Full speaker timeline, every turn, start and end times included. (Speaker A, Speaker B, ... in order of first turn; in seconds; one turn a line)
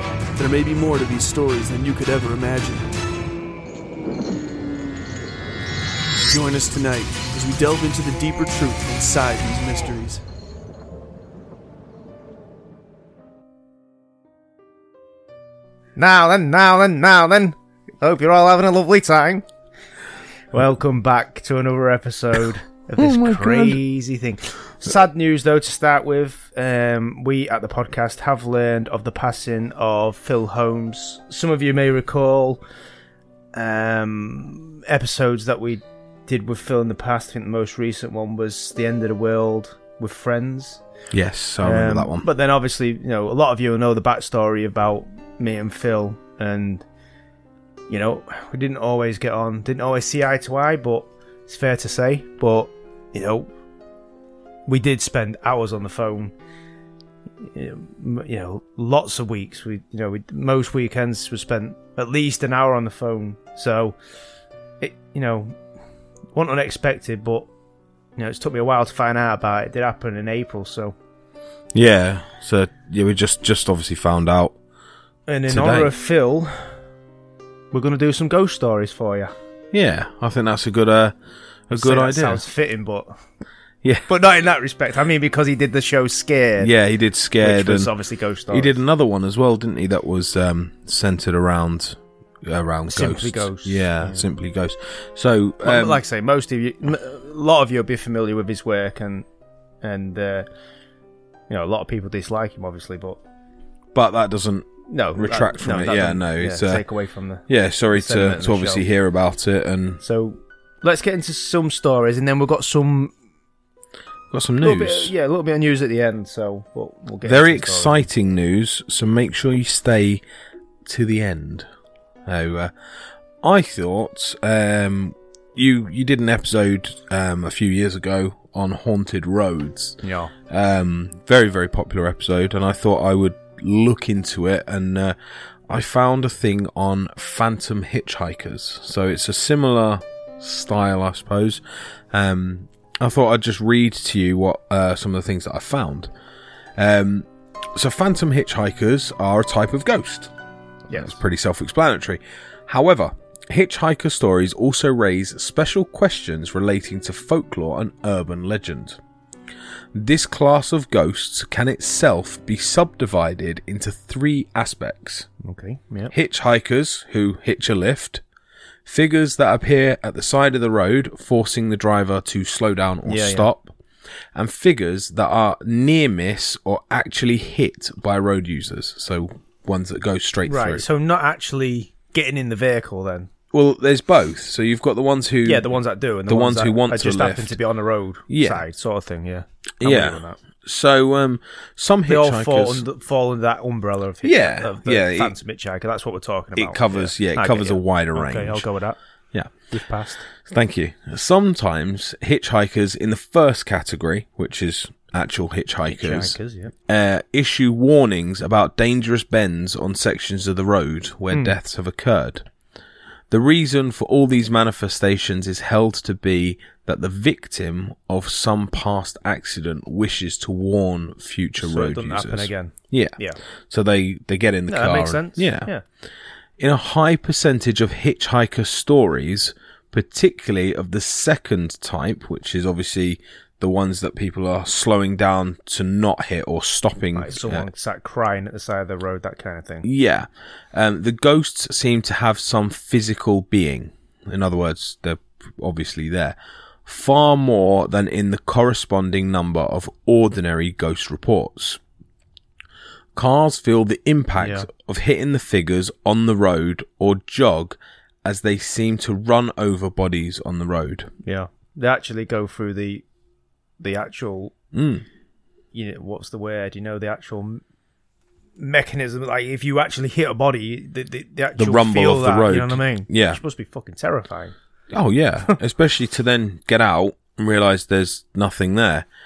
Speaker A: 0.3-2.9
Speaker A: 6.2-10.2
Speaker B: 15.9-19.4
Speaker B: 20.5-32.6
Speaker C: 23.0-23.8
Speaker B: 33.5-40.8
Speaker C: 41.1-42.3
Speaker B: 41.6-46.8
Speaker B: 47.9-53.5
Speaker B: 54.6-56.3
Speaker B: 57.4-64.0
Speaker B: 64.8-65.6
Speaker B: 66.3-67.5
Speaker B: 68.2-70.9
Speaker C: 71.7-74.5
Speaker B: 75.3-76.7
Speaker C: 75.5-75.9
Speaker B: 77.7-79.3
Speaker C: 79.7-81.1
Speaker C: 81.7-82.4
Speaker B: 81.7-83.1
Speaker B: 84.1-86.7
Speaker C: 86.6-87.9
Speaker B: 87.4-88.8
Speaker C: 88.5-96.0
Speaker B: 92.9-94.3
Speaker B: 95.6-99.2
Speaker B: 99.8-100.5
Speaker B: 101.5-103.2
Speaker C: 103.9-106.8
Speaker B: 104.9-108.8
Speaker C: 107.5-110.0
Speaker B: 110.0-113.1
Speaker C: 114.3-115.1
Speaker B: 114.6-118.1
Speaker C: 117.2-120.2
Speaker C: 120.8-121.7
Speaker C: 122.2-122.7
Speaker C: 123.4-135.1
Speaker B: 130.0-130.3
Speaker C: 135.7-146.1
Speaker C: 146.8-150.3
Speaker B: 150.9-151.2
Speaker C: 150.9-159.0
Speaker C: 159.9-165.3
Speaker B: 165.4-166.1
Speaker C: 166.1-168.2
Speaker C: 168.8-173.7
Speaker B: 173.0-173.5
Speaker C: 174.3-180.8
Speaker B: 180.4-183.3
Speaker C: 183.5-185.7
Speaker B: 185.4-190.4
Speaker C: 186.3-187.6
Speaker C: 188.3-188.6
Speaker C: 189.8-192.8
Speaker B: 192.1-199.0
Speaker C: 194.2-195.3
Speaker C: 196.6-198.6
Speaker B: 199.7-200.3
Speaker C: 200.4-206.3
Speaker B: 205.9-206.7
Speaker C: 206.9-212.4
Speaker B: 211.3-211.6
Speaker C: 213.3-223.2
Speaker B: 221.6-223.4
Speaker C: 223.7-225.7
Speaker B: 224.7-225.8
Speaker C: 226.6-237.7
Speaker B: 237.1-239.9
Speaker C: 239.8-251.8
Speaker C: 253.1-261.1
Speaker B: 254.4-254.7
Speaker B: 261.2-263.0
Speaker B: 263.8-264.5
Speaker C: 264.7-265.0
Speaker B: 265.7-267.6
Speaker B: 268.6-274.5
Speaker C: 271.6-273.4
Speaker C: 274.9-279.1